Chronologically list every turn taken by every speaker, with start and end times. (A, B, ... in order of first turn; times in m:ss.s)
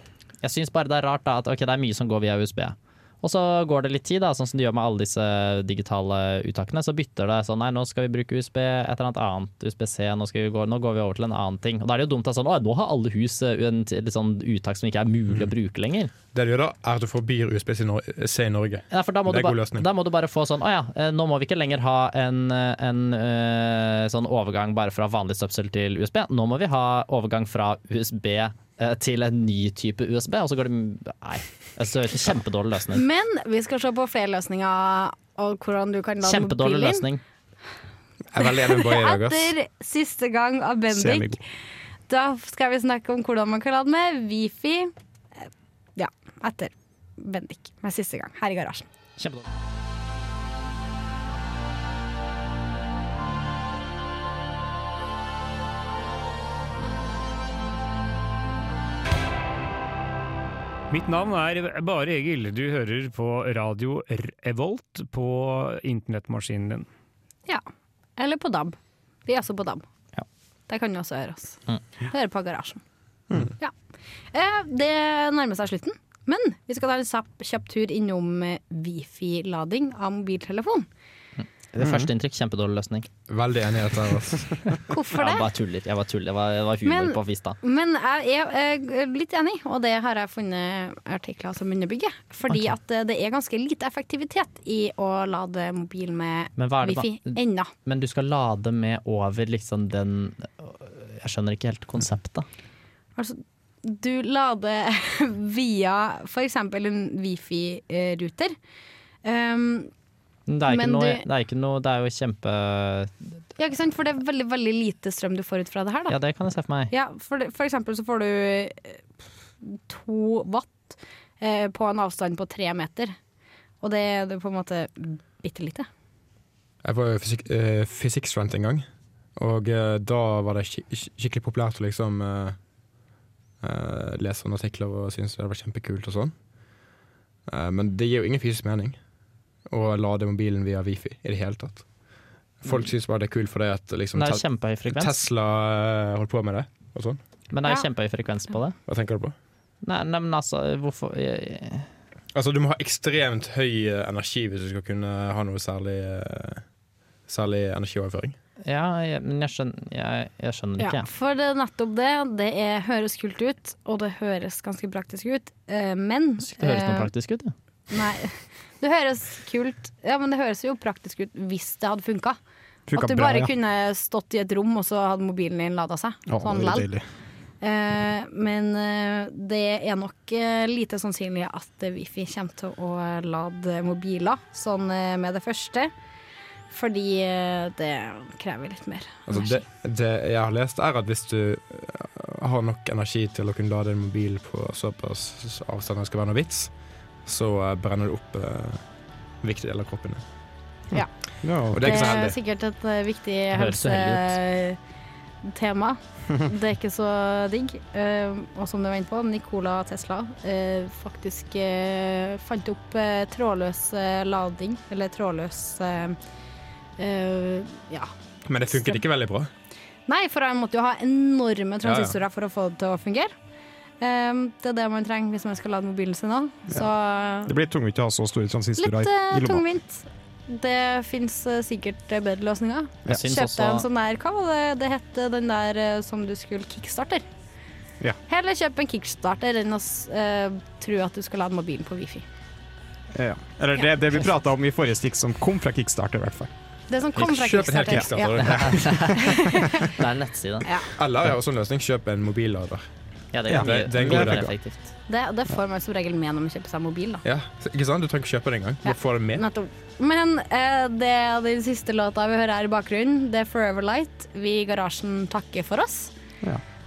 0:00.4-0:16.1 A
0:16.3-0:19.8 B
0:18.9-0:33.0 A
0:32.9-0:37.0 C
0:36.2-0:37.2 A
0:38.3-0:39.5 B
0:38.4-0:41.4 C
0:40.9-0:41.4 D
0:42.1-0:44.9 C
0:46.0-0:48.9 C
0:49.2-0:49.4 A
1:00.9-1:06.9 E
1:08.2-1:09.8 C
1:10.7-1:12.8 C
1:14.3-1:20.9 C
1:21.4-1:23.1 A
1:23.3-1:24.8 B
1:24.9-1:25.5 C
1:25.1-1:27.6 A
1:26.8-1:37.7 C
1:32.5-1:32.7 A
1:36.6-1:42.5 A
1:43.2-1:48.5 C
1:49.2-1:49.9 C
1:50.5-1:53.4 A
1:50.6-1:51.2 C
1:53.6-1:56.2 C
1:56.1-1:56.9 A
1:56.9-1:59.0 C
1:59.6-2:03.1 C
2:03.8-2:05.9 C
2:06.8-2:08.8 B
2:09.4-2:12.6 B
2:13.6-2:16.3 B
2:17.5-2:19.0 B
2:19.7-2:21.9 B
2:22.6-2:27.2 B
2:24.1-2:25.2 A
2:27.5-2:28.8 A
2:28.9-2:29.3 B
2:29.8-2:31.9 A
2:32.3-2:36.6 B
2:37.3-2:38.4 B
2:38.6-2:41.1 A
2:40.8-2:47.1 C
2:46.4-2:47.5 A
2:47.9-2:52.4 C
2:52.9-2:53.5 D
2:52.9-2:56.8 C
2:56.3-2:57.0 D
2:57.6-3:05.9 C
3:06.7-3:09.6 C
3:09.3-3:16.7 B
3:17.2-3:18.8 B
3:19.4-3:20.2 B
3:20.9-3:22.2 D
3:21.5-3:22.4 B
3:21.8-3:24.8 C
3:23.5-3:24.4 A
3:25.4-3:36.2 C
3:37.0-3:38.1 C
3:38.4-3:39.5 B
3:38.7-3:39.0 C
3:40.1-3:43.3 C
3:41.8-3:42.2 B
3:44.0-3:47.5 C
3:47.4-3:49.6 D
3:48.8-3:57.2 C
3:53.0-3:53.8 A
3:58.3-4:02.2 C
4:03.1-4:06.5 D
4:06.9-4:08.6 C
4:07.1-4:09.1 B
4:07.9-4:09.8 D
4:08.4-4:10.7 A
4:09.2-4:10.0 C
4:10.6-4:10.9 C
4:10.9-4:12.8 B
4:13.3-4:14.9 A
4:13.5-4:14.5 D
4:13.5-4:14.5 B
4:15.1-4:17.2 C
4:17.2-4:19.4 B
4:18.8-4:26.1 C